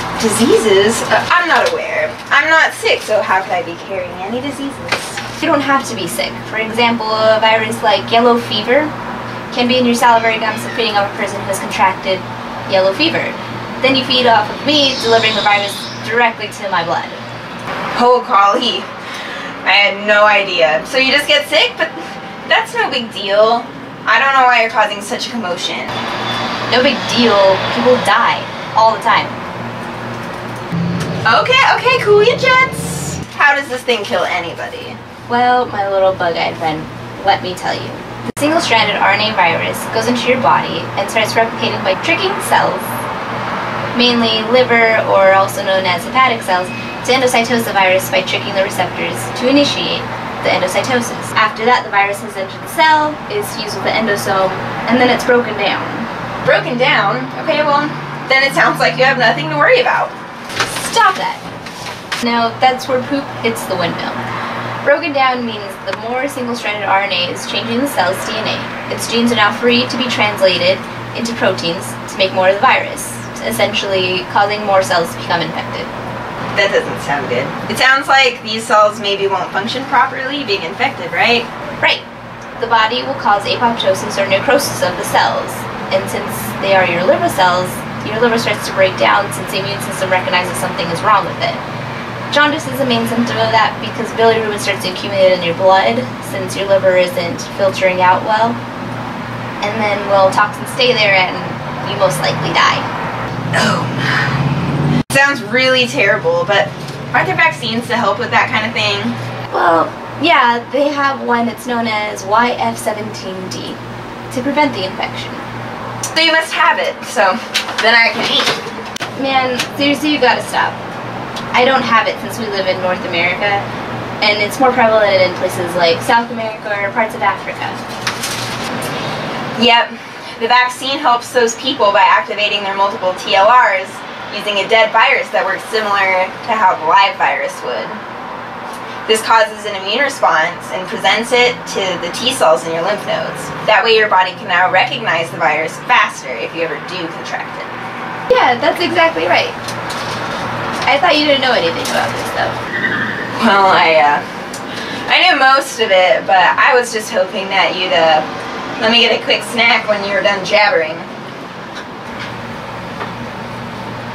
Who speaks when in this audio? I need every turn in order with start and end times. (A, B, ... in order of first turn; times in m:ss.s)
0:00.2-0:05.2 A
0:05.4-0:08.9 B
0:09.5-0:17.2 B
0:18.0-0:18.9 A
0:19.6-0:26.0 A
0:26.7-0:29.4 B
0:31.2-0:35.0 A
0:35.3-0:42.9 B
0:43.9-0:56.1 B
0:56.4-1:00.1 A
1:00.7-1:01.4 B
1:02.2-1:04.2 B
1:04.8-1:15.9 B
1:16.5-1:21.5 A
1:22.6-1:31.6 B
1:32.3-1:38.6 B
1:39.6-1:42.9 B
1:43.5-1:44.4 A
1:45.1-1:49.2 A
1:49.5-1:55.4 B
1:56.1-1:58.6 A
1:59.2-2:00.8 B
2:01.5-2:03.7 B
2:04.2-2:07.8 B
2:09.6-2:18.0 A
2:19.1-2:27.7 A
2:28.3-2:29.6 B
2:30.9-2:32.6 B
2:33.3-2:34.2 A
2:35.1-2:38.3 A
2:38.8-2:41.1 A